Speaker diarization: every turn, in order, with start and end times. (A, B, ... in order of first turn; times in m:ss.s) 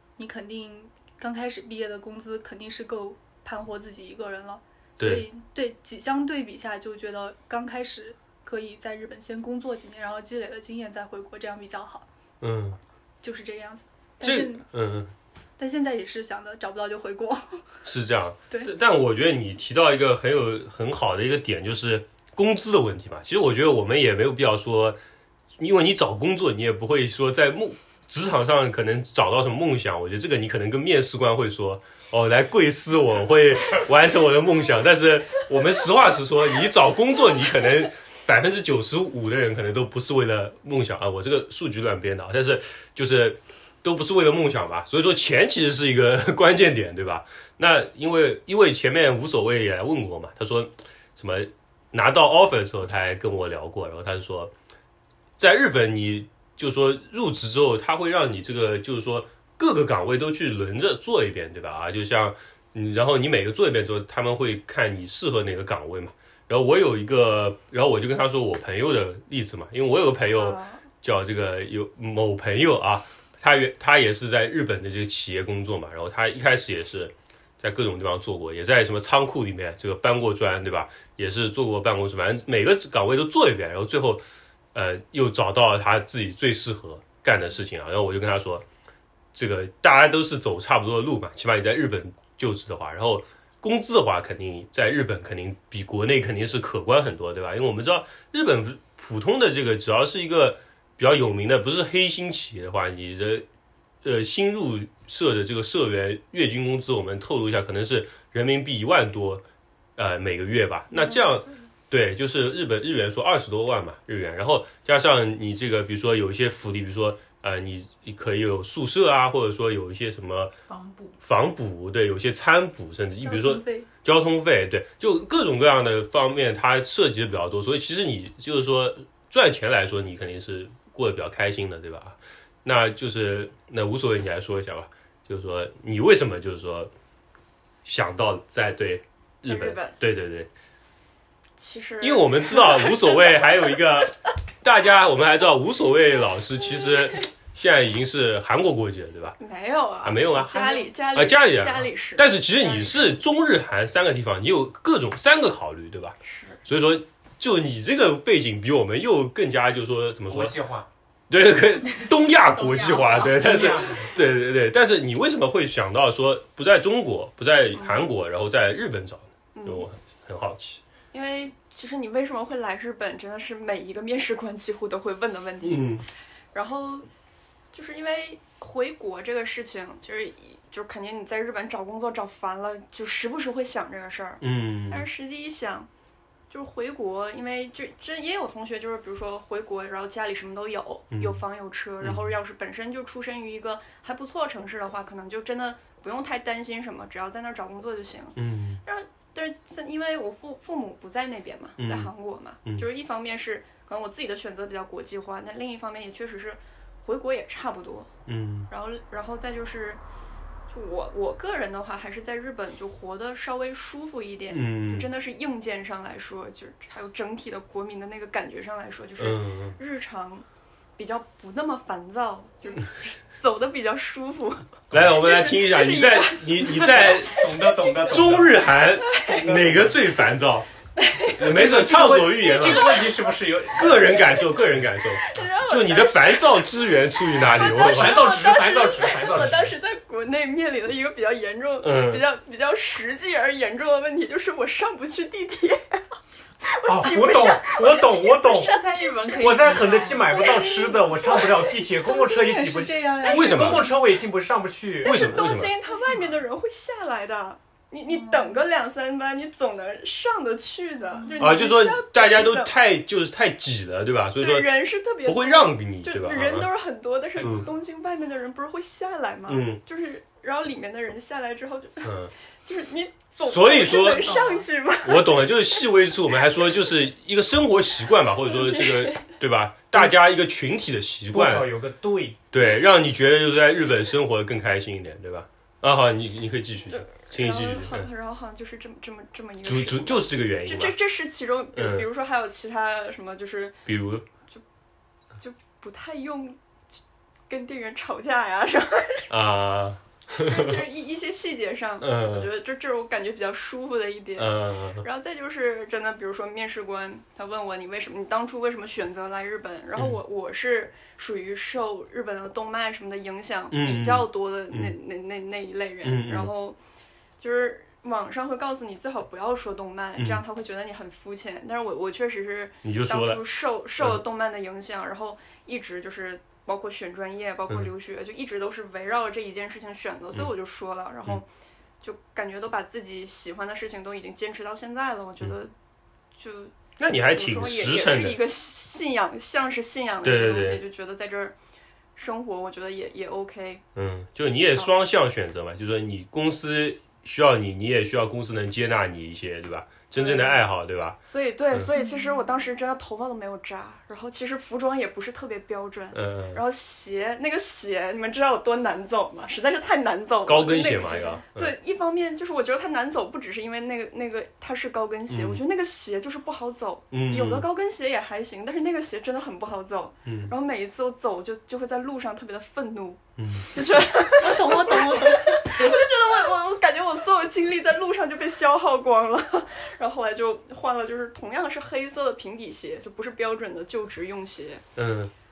0:00.2-0:12.1 A
0:05.0-0:05.2 B
0:12.4-0:12.8 B
0:13.2-0:14.7 A
0:14.2-0:15.1 B
0:15.6-0:17.6 A
0:17.8-0:25.0 B
0:25.6-0:54.5 B
0:55.4-1:24.2 B
1:10.3-1:10.8 C
1:24.7-1:28.6 B
1:29.3-1:43.4 B
1:44.0-1:49.4 B
1:50.0-2:00.5 B
2:00.7-2:01.2 D
2:01.2-2:16.9 B
2:03.2-2:03.9 A
2:17.8-2:20.5 B
2:19.4-2:20.0 C
2:21.6-2:23.8 C
2:22.0-2:29.4 B
2:26.8-2:27.2 C
2:29.4-2:32.9 C
2:30.0-2:40.6 B
2:36.2-2:36.6 C
2:40.3-2:40.9 E
2:41.3-2:50.8 B
2:42.6-2:43.5 D
2:43.4-2:44.1 E
2:47.8-2:48.1 C
2:49.5-2:49.9 C
2:51.1-2:56.0 C
2:55.6-2:56.1 B
2:56.5-2:57.1 C
2:57.7-3:05.9 C
3:04.4-3:05.1 B
3:06.5-3:28.1 C
3:11.1-3:11.4 B
3:12.0-3:12.3 B
3:18.4-3:18.8 B
3:21.8-3:22.1 B
3:28.3-3:28.7 B
3:28.7-3:30.0 C
3:30.7-3:40.5 C
3:34.5-3:35.1 B
3:39.2-3:39.8 B
3:41.0-3:48.0 C
3:44.9-3:47.5 B
3:46.9-3:48.7 E
3:48.1-3:50.7 B
3:49.1-3:49.4 C
3:49.3-3:50.0 E
3:51.0-3:51.6 C
3:51.4-3:53.0 B
3:51.4-3:54.7 E
3:52.3-3:54.5 C
3:53.8-3:58.3 B
3:55.2-4:06.0 C
3:57.4-3:59.8 E
4:01.8-4:02.2 B
4:06.6-4:09.6 C
4:06.8-4:08.8 E
4:08.7-4:10.4 D
4:09.4-4:15.2 E
4:10.3-4:14.0 A
4:13.3-4:13.9 B
4:15.0-4:15.7 B
4:15.0-4:22.8 C
4:18.1-4:18.6 A
4:21.2-4:21.6 A
4:21.4-4:24.7 B
4:24.4-4:32.1 C
4:25.2-4:26.7 B
4:27.4-4:27.7 B
4:29.5-4:29.8 B
4:32.0-4:32.3 B
4:32.6-4:35.8 C
4:33.5-4:34.3 B
4:34.2-4:34.7 D
4:35.0-4:41.7 B
4:38.5-4:39.2 C
4:41.3-4:42.4 E
4:42.5-4:48.1 B
4:46.9-4:53.9 C
4:49.6-4:51.0 B
4:51.8-4:52.1 B
4:53.9-4:54.2 B
4:55.4-4:56.6 C
4:57.5-4:59.3 C
4:59.3-5:00.8 B
5:00.4-5:16.8 C
5:02.0-5:02.5 B
5:04.4-5:05.0 B
5:13.7-5:14.9 B
5:16.0-5:16.5 B
5:17.4-5:31.4 C
5:20.2-5:20.4 B
5:22.8-5:23.4 B
5:32.0-5:35.7 C
5:36.4-5:41.6 C
5:37.0-5:38.4 B
5:40.2-5:40.8 B
5:42.2-5:43.8 C
5:44.0-5:51.2 B
5:50.1-5:50.6 C
5:51.2-6:24.9 C
5:52.0-5:52.4 A
5:56.1-5:56.6 B
6:00.5-6:01.8 B
6:05.3-6:05.6 B
6:07.1-6:07.7 B
6:10.2-6:10.5 B
6:13.4-6:13.7 B
6:14.4-6:15.9 A
6:25.0-6:25.3 B